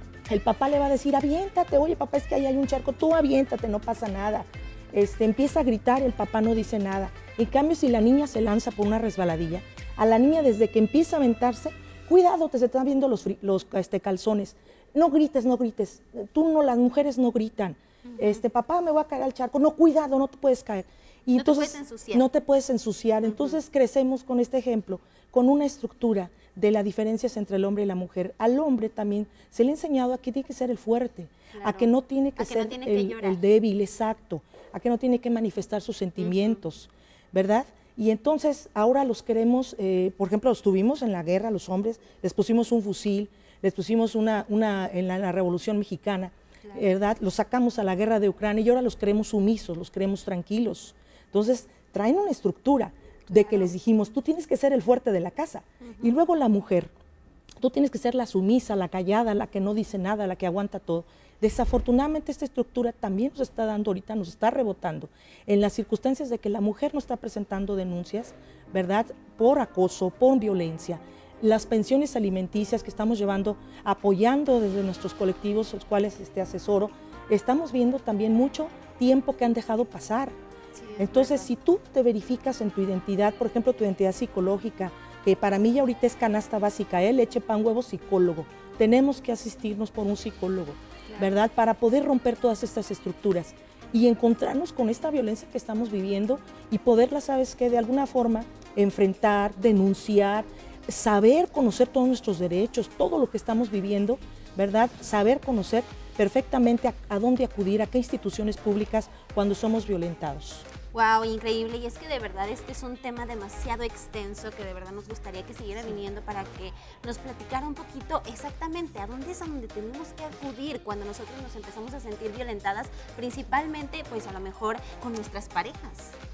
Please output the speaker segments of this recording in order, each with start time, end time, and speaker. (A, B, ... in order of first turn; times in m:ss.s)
0:00.3-0:56.9 A
0:18.1-0:18.4 B
0:21.4-0:22.2 B
0:31.5-0:33.4 B
0:36.2-0:36.6 B
0:53.3-0:53.7 B
0:57.6-1:20.3 A
1:20.8-1:21.5 B
1:21.0-1:50.7 A
1:50.9-2:06.2 B